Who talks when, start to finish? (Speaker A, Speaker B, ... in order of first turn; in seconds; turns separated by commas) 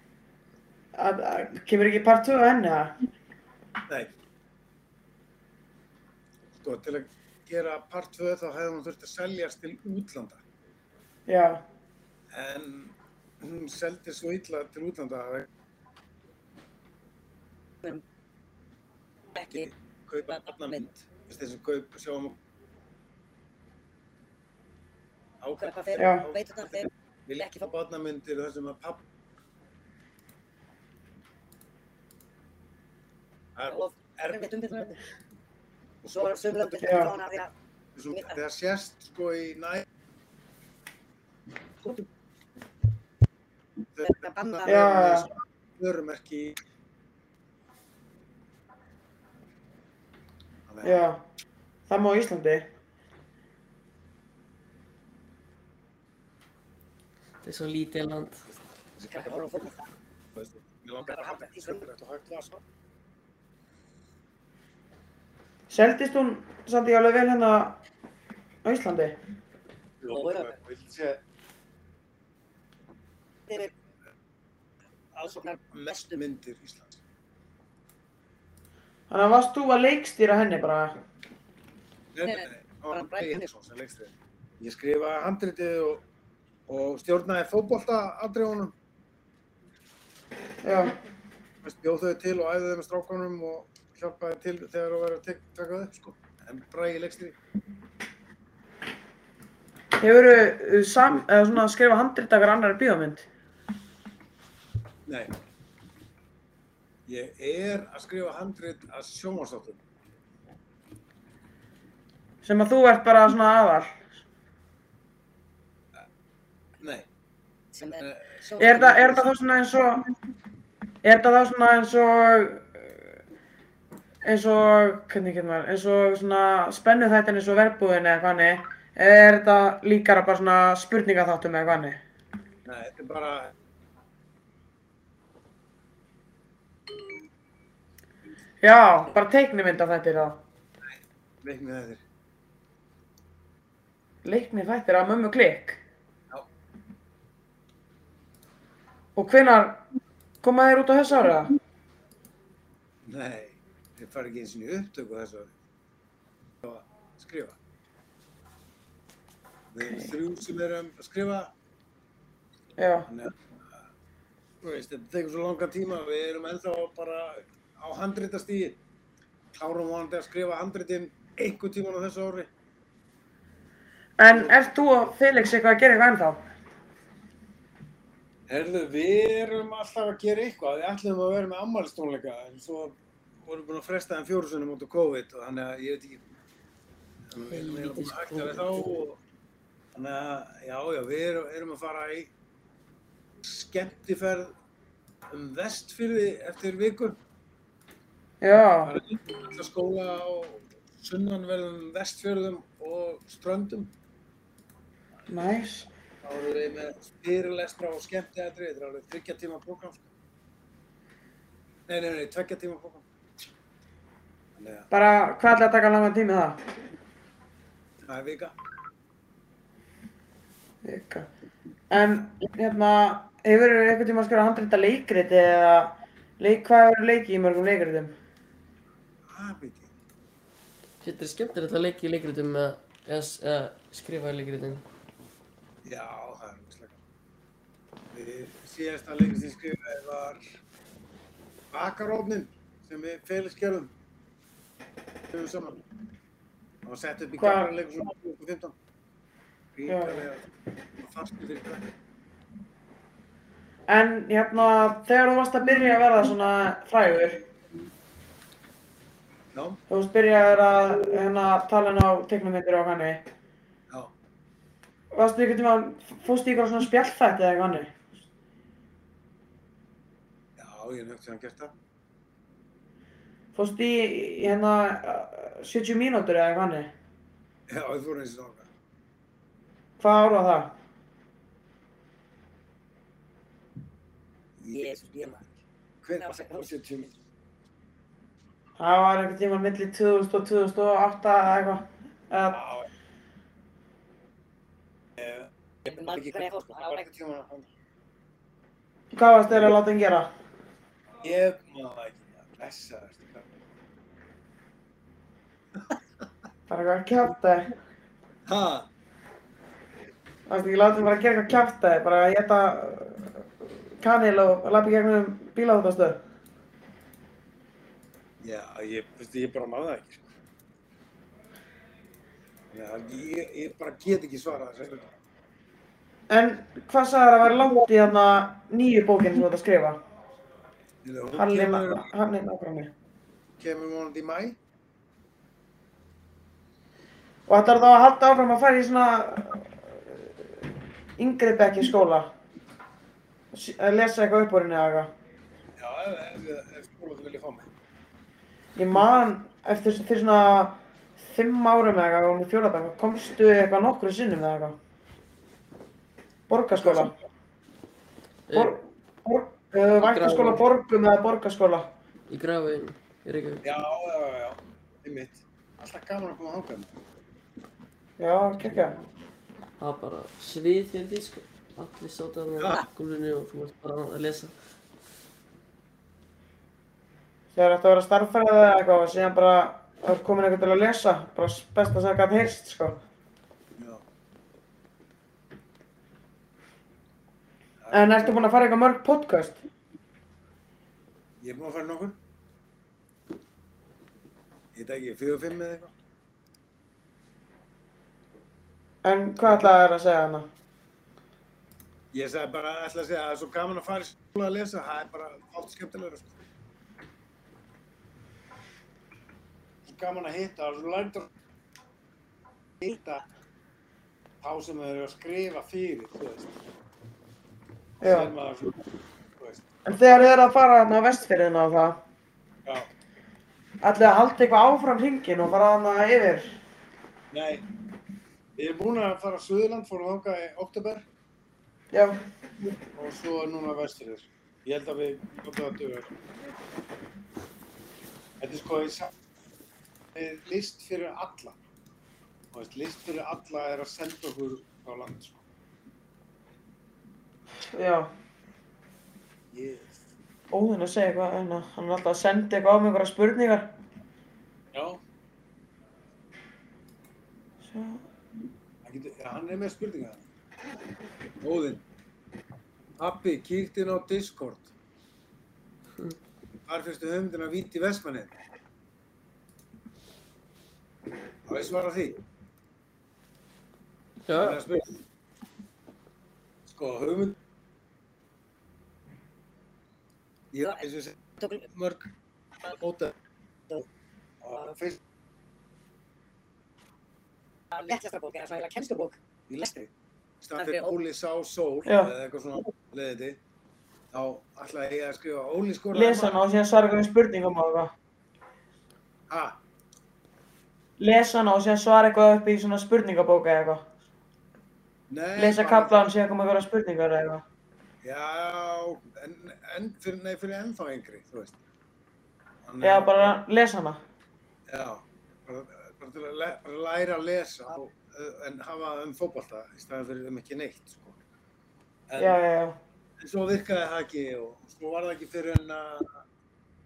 Speaker A: 0.9-2.9, Speaker B: 3.9-4.1, Speaker B: 6.6-10.4, Speaker A: 11.3-11.6, Speaker B: 12.3-15.5, Speaker C: 19.4-19.6, Speaker B: 19.5-22.4, Speaker C: 20.4-20.8, Speaker B: 25.4-26.4, Speaker C: 25.6-26.9, Speaker A: 26.0-26.2, Speaker B: 27.3-29.0, Speaker B: 33.5-34.5, Speaker C: 33.7-35.0, Speaker B: 36.0-37.1, Speaker C: 36.1-37.5, Speaker A: 36.8-37.1, Speaker B: 37.9-39.9, Speaker B: 44.0-46.6, Speaker C: 44.1-44.7, Speaker A: 44.6-45.3, Speaker B: 50.7-51.0, Speaker A: 50.8-51.2, Speaker A: 51.9-52.7, Speaker D: 57.4-58.4, Speaker B: 59.0-59.8, Speaker C: 59.1-59.8, Speaker B: 60.3-62.6, Speaker C: 61.1-61.8, Speaker A: 65.7-67.8, Speaker A: 68.6-69.2, Speaker B: 70.0-71.2, Speaker C: 70.1-70.5, Speaker B: 75.1-77.0, Speaker A: 79.1-81.0, Speaker B: 82.1-86.0, Speaker C: 82.9-83.3, Speaker B: 86.7-88.7, Speaker A: 90.6-90.9, Speaker B: 91.6-97.4, Speaker A: 100.0-103.3, Speaker B: 105.0-105.3, Speaker B: 107.0-109.8, Speaker A: 112.4-114.0, Speaker B: 116.8-117.1, Speaker C: 117.8-118.0, Speaker B: 117.9-119.4, Speaker A: 118.6-120.1, Speaker A: 121.0-123.0, Speaker A: 124.2-132.0, Speaker B: 132.6-133.5, Speaker A: 138.6-140.4, Speaker B: 140.9-142.0, Speaker A: 144.2-145.8, Speaker A: 149.2-149.8, Speaker A: 150.4-151.5, Speaker B: 153.0-155.5, Speaker B: 156.6-157.6, Speaker B: 159.7-161.5, Speaker A: 162.8-163.1, Speaker B: 163.1-163.4, Speaker B: 164.6-168.8, Speaker B: 169.5-172.5, Speaker A: 174.2-176.4, Speaker B: 174.3-174.6, Speaker B: 178.5-186.2, Speaker B: 187.3-189.2, Speaker B: 189.9-192.3, Speaker B: 193.4-194.5, Speaker B: 195.3-197.2, Speaker A: 198.4-198.9, Speaker B: 198.8-203.9, Speaker A: 205.3-205.9, Speaker B: 206.2-210.1, Speaker B: 211.9-213.1, Speaker B: 214.6-214.9, Speaker A: 214.9-216.6, Speaker B: 218.0-218.5, Speaker A: 220.8-221.3, Speaker A: 221.9-228.1, Speaker B: 229.3-229.9, Speaker D: 231.0-234.8, Speaker B: 235.8-237.0, Speaker B: 238.1-240.4, Speaker B: 241.7-243.9, Speaker B: 245.3-245.8, Speaker B: 246.8-248.7, Speaker A: 247.4-247.7, Speaker B: 249.7-250.4, Speaker A: 249.9-250.2, Speaker B: 251.0-251.9, Speaker A: 253.9-257.4, Speaker B: 259.5-259.8, Speaker A: 259.9-263.2, Speaker A: 265.1-268.0, Speaker B: 270.6-271.7, Speaker A: 273.5-276.9, Speaker B: 277.7-278.7, Speaker A: 280.0-280.8, Speaker B: 284.6-285.1, Speaker C: 284.7-285.4, Speaker B: 286.0-287.1, Speaker C: 286.2-286.7, Speaker A: 288.8-292.6, Speaker B: 292.5-292.9, Speaker B: 295.1-297.7, Speaker C: 295.9-297.0, Speaker A: 299.1-300.3, Speaker B: 301.2-303.5, Speaker A: 306.7-307.7, Speaker B: 308.4-308.9, Speaker A: 310.5-316.2, Speaker B: 318.4-320.3, Speaker B: 322.7-325.1, Speaker A: 326.3-330.0, Speaker B: 331.0-332.1, Speaker A: 331.3-332.9, Speaker B: 333.6-334.6, Speaker A: 337.5-340.3, Speaker A: 341.2-342.3, Speaker A: 343.5-345.1, Speaker B: 345.8-347.7, Speaker A: 348.8-354.8, Speaker A: 356.5-357.1, Speaker B: 356.7-357.2, Speaker D: 358.5-358.7, Speaker A: 358.5-361.9, Speaker D: 360.0-360.6, Speaker D: 362.3-363.6, Speaker B: 363.6-366.9, Speaker A: 368.2-369.0, Speaker D: 369.8-374.5, Speaker B: 372.6-372.8, Speaker A: 377.5-383.0, Speaker B: 383.8-384.0, Speaker B: 387.8-388.5, Speaker A: 387.9-389.6, Speaker B: 391.4-392.2, Speaker B: 394.7-395.9, Speaker A: 399.0-400.5, Speaker B: 399.4-399.7, Speaker B: 402.1-406.4, Speaker B: 409.8-411.3, Speaker B: 412.8-413.2, Speaker B: 414.4-416.6, Speaker B: 418.0-418.9, Speaker A: 418.0-418.3, Speaker B: 419.4-419.6, Speaker A: 419.8-422.0, Speaker A: 423.8-426.6, Speaker B: 427.3-427.6, Speaker B: 428.6-431.0, Speaker A: 431.9-432.2, Speaker B: 432.8-436.1, Speaker B: 438.4-439.1, Speaker B: 440.1-441.6, Speaker B: 442.5-445.4, Speaker A: 447.6-448.1, Speaker B: 449.5-450.0, Speaker A: 450.5-453.7, Speaker B: 454.7-455.0, Speaker A: 457.6-458.0, Speaker B: 458.8-460.2, Speaker B: 461.4-461.8, Speaker B: 463.0-464.7, Speaker B: 466.6-468.3, Speaker B: 471.4-472.2, Speaker D: 474.3-474.6, Speaker B: 474.3-475.0, Speaker B: 476.6-477.4, Speaker B: 480.5-482.1, Speaker B: 482.6-483.1, Speaker B: 484.4-485.0, Speaker C: 487.7-489.2, Speaker B: 489.5-489.9, Speaker B: 490.4-493.4, Speaker C: 490.6-490.9, Speaker A: 491.9-492.1, Speaker B: 494.1-496.4, Speaker A: 495.9-497.9, Speaker B: 499.3-499.6, Speaker A: 501.0-503.9, Speaker B: 505.1-506.0, Speaker A: 505.4-507.4, Speaker B: 508.0-511.6, Speaker B: 512.6-513.4, Speaker A: 512.8-514.0, Speaker B: 514.7-521.2, Speaker B: 522.1-522.4, Speaker A: 522.1-522.8, Speaker B: 523.2-526.2